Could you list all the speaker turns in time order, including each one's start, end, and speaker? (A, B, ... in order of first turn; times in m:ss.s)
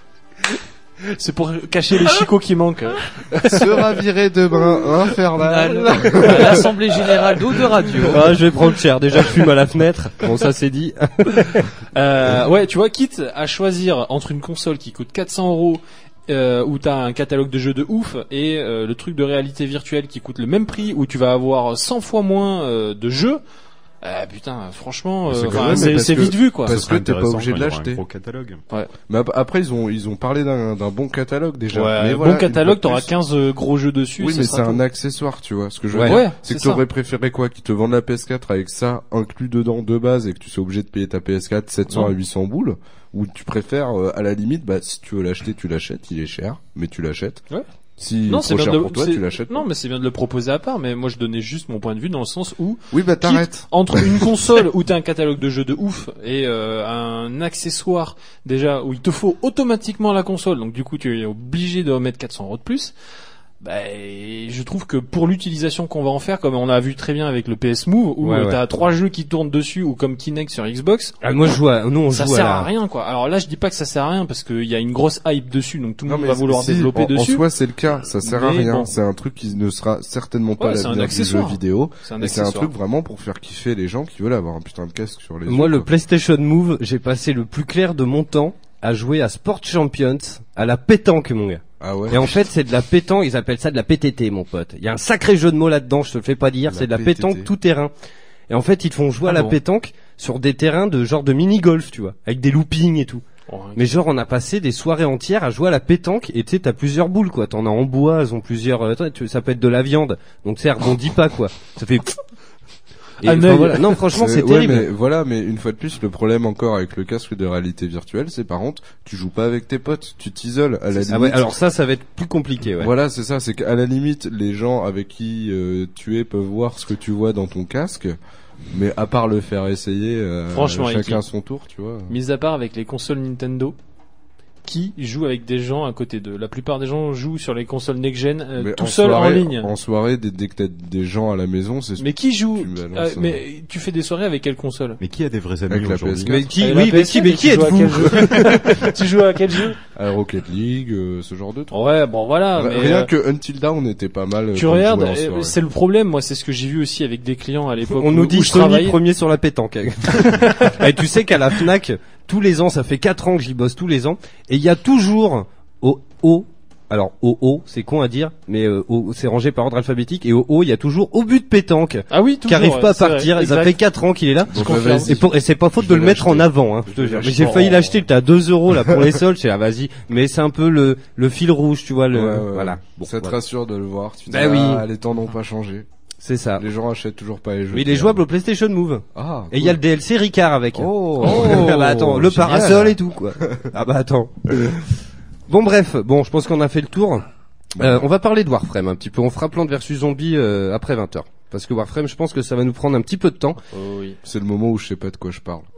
0:01.1-0:03.9 A
0:03.4-0:06.7 B
0:05.4-0:08.3 C
0:06.2-0:06.6 A
0:08.1-0:11.7 D
0:11.9-0:23.4 A
0:24.0-0:26.8 A
0:25.3-0:28.6 E
0:25.3-0:28.0 B
0:29.1-0:33.1 B
0:31.7-0:34.8 A
0:34.2-0:47.4 B
0:35.9-0:36.2 D
0:36.0-0:36.8 A
0:48.0-0:49.7 B
0:48.3-1:02.9 A
0:52.9-0:54.2 B
1:03.6-1:11.1 A
1:08.2-1:08.6 D
1:11.2-1:12.7 D
1:12.1-1:17.4 A
1:16.0-1:25.9 B
1:18.2-1:18.9 A
1:20.6-1:22.7 A
1:25.4-1:37.9 D
1:31.8-1:32.4 B
1:36.7-1:37.5 B
1:38.5-1:43.2 D
1:39.3-1:39.5 A
1:43.5-1:43.8 A
1:43.7-1:52.2 D
1:53.2-1:54.0 A
1:53.2-1:54.9 D
1:54.1-2:01.5 B
2:01.0-2:02.9 D
2:02.8-2:08.2 B
2:08.7-2:12.2 B
2:10.5-2:11.2 A
2:12.1-2:13.8 A
2:14.6-2:19.7 A
2:18.6-2:23.4 B
2:22.0-2:25.0 A
2:25.0-2:26.4 E
2:25.7-2:26.5 B
2:26.2-2:28.8 D
2:26.6-2:29.8 A
2:29.9-2:31.8 B
2:31.7-2:33.1 A
2:32.5-2:35.6 B
2:34.5-2:39.0 A
2:37.9-3:03.4 D
2:40.1-2:40.8 A
2:52.1-2:53.8 A
2:54.5-2:57.9 B
2:54.5-2:55.1 A
3:02.1-3:05.9 B
3:04.3-3:04.8 D
3:06.2-3:06.6 D
3:06.6-3:08.2 B
3:07.7-3:14.9 D
3:09.1-3:09.8 B
3:10.7-3:13.7 B
3:11.2-3:12.9 C
3:15.5-3:17.2 D
3:17.8-3:18.0 B
3:17.8-3:23.6 D
3:23.7-3:24.2 A
3:24.2-3:25.6 B